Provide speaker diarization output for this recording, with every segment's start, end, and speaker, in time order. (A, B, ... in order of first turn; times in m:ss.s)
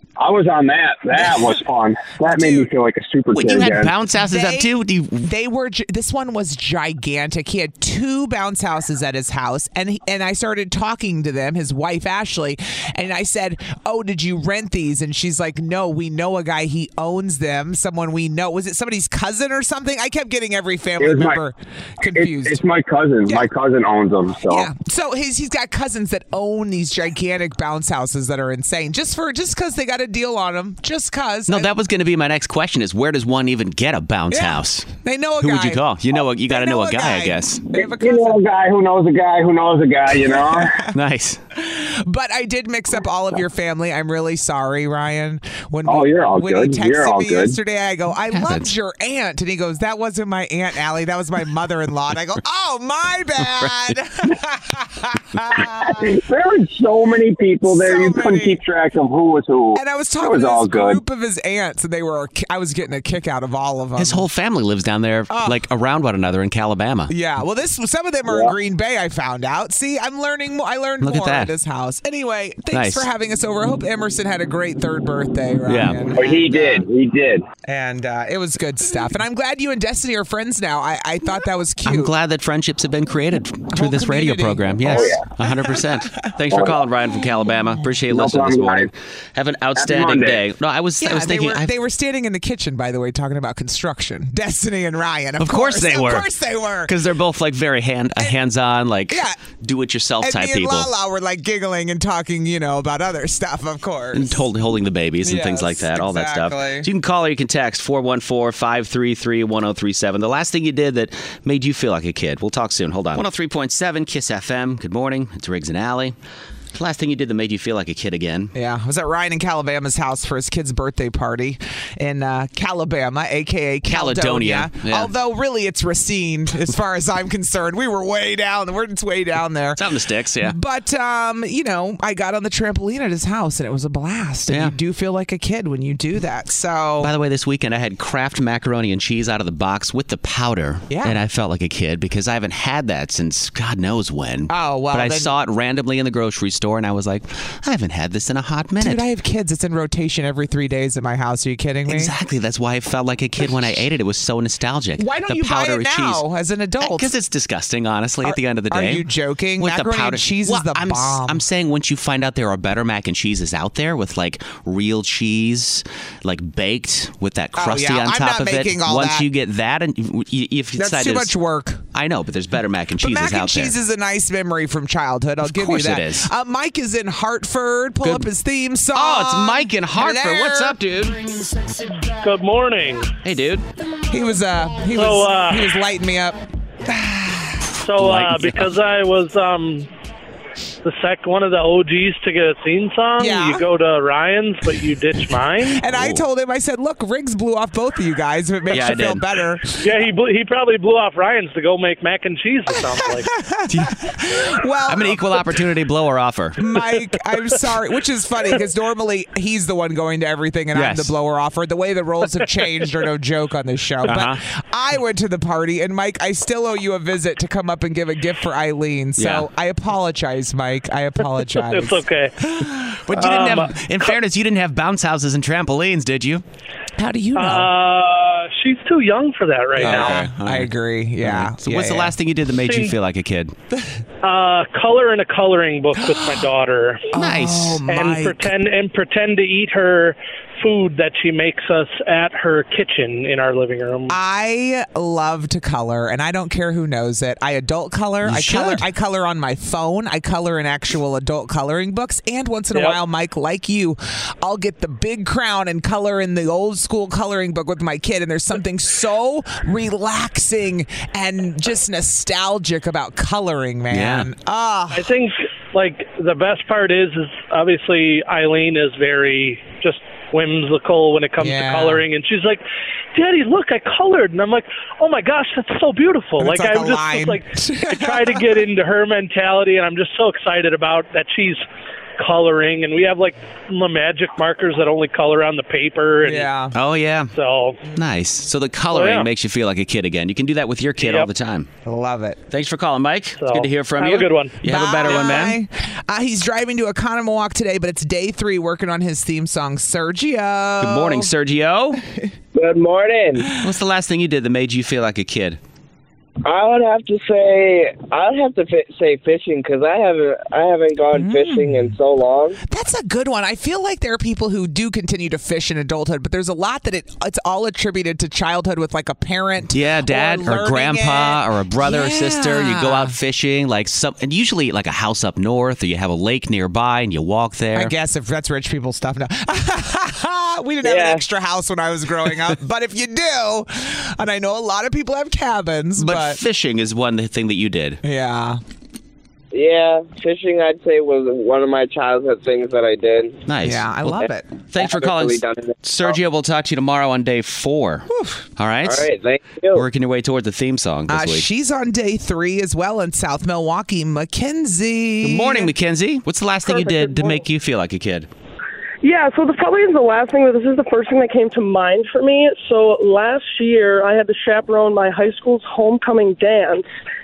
0:00.2-0:03.9 A
0:02.2-0:02.7 B
0:03.4-0:05.3 C
0:04.2-0:04.7 B
0:05.2-0:22.6 B
0:21.0-0:21.4 A
0:22.1-0:24.7 A
0:24.5-0:31.7 B
0:31.5-0:34.9 C
0:34.3-0:35.8 B
0:35.4-0:37.7 C
0:36.5-0:38.4 B
0:38.0-0:40.8 A
0:40.2-0:40.9 B
0:40.9-0:41.4 C
0:41.6-0:56.1 B
0:45.9-0:47.5 A
0:48.3-0:48.7 C
0:55.8-1:01.0 A
0:57.6-0:58.6 B
0:59.8-1:04.2 B
1:04.0-1:07.1 C
1:05.3-1:05.6 B
1:07.1-1:16.8 B
1:11.0-1:11.5 C
1:12.7-1:13.0 C
1:15.7-1:16.1 C
1:16.1-1:17.4 A
1:17.6-1:22.1 B
1:21.8-1:31.7 C
1:23.7-1:25.2 B
1:24.9-1:25.2 A
1:28.1-1:28.9 A
1:29.8-1:30.4 A
1:31.0-1:36.9 B
1:35.4-1:36.3 C
1:36.8-1:40.9 C
1:39.1-1:39.4 B
1:40.2-1:44.4 B
1:44.1-1:56.1 C
1:45.2-1:46.9 B
1:56.7-1:58.5 C
1:58.5-2:09.8 B
2:03.9-2:05.1 C
2:09.8-2:10.6 C
2:10.4-2:17.1 B
2:14.5-2:14.7 C
2:17.0-2:29.0 C
2:20.9-2:21.2 B
2:24.5-2:25.3 B
2:28.8-2:32.1 B
2:31.9-2:36.2 C
2:33.4-2:33.7 B
2:35.0-2:37.1 B
2:36.8-2:39.0 C
2:38.2-2:41.4 B
2:39.6-2:51.3 C
2:47.6-2:49.2 B
2:50.8-2:51.8 B
2:51.9-2:53.8 C
2:53.0-3:00.8 B
2:55.4-2:56.3 C
2:58.9-3:01.4 C
3:02.2-3:03.1 D
3:03.2-3:03.6 C
3:04.1-3:07.7 B
3:04.9-3:05.6 D
3:07.8-3:09.9 D
3:08.0-3:08.7 C
3:10.8-3:15.8 D
3:13.2-3:13.6 B
3:15.7-3:19.9 B
3:15.9-3:16.2 C
3:18.7-3:19.2 C
3:19.8-3:23.3 D
3:22.8-3:25.6 B
3:23.7-3:24.1 C
3:24.9-3:26.8 C
3:26.6-3:42.0 B
3:30.7-3:31.1 C
3:34.0-3:34.4 C
3:39.2-3:39.4 C
3:41.6-3:42.3 D
3:42.5-3:43.7 B
3:43.0-3:46.4 C
3:43.2-3:44.1 D
3:47.0-3:47.7 B
3:47.4-3:50.1 D
3:49.8-3:53.5 C
3:49.8-3:52.1 B
3:52.6-3:52.9 D
3:54.2-3:57.1 D
3:57.1-3:58.5 B
3:57.1-3:57.8 C
3:57.9-4:04.1 D
4:04.1-4:25.1 B
4:08.2-4:08.8 C
4:23.9-4:24.3 C
4:24.9-4:32.6 D
4:31.4-4:32.0 B
4:33.1-4:41.6 D
4:36.4-4:38.5 B
4:42.2-4:46.5 D
4:46.2-4:46.7 B
4:46.7-4:47.3 C
4:47.3-4:47.8 D
4:47.9-4:51.7 C
4:48.9-4:49.3 D
4:51.0-4:51.3 D
4:51.8-4:52.4 B
4:52.5-4:55.6 C
4:53.4-4:54.6 D
4:54.6-5:01.3 B
5:00.8-5:02.0 C
5:02.5-5:03.5 E
5:03.6-5:05.6 C
5:06.4-5:12.6 E
5:11.1-5:11.9 B
5:12.6-5:23.1 B
5:19.7-5:27.9 C
5:27.7-5:36.4 B
5:30.8-5:31.2 E
5:36.0-5:38.0 C
5:38.0-5:38.6 B
5:39.5-5:43.4 E
5:43.5-5:51.4 C
5:43.6-5:44.5 B
5:44.8-5:46.2 E
5:48.1-5:48.4 B
5:48.8-5:49.8 E
5:51.1-5:55.7 B
5:55.2-5:58.3 C
5:56.6-5:57.4 F
5:59.0-6:06.8 F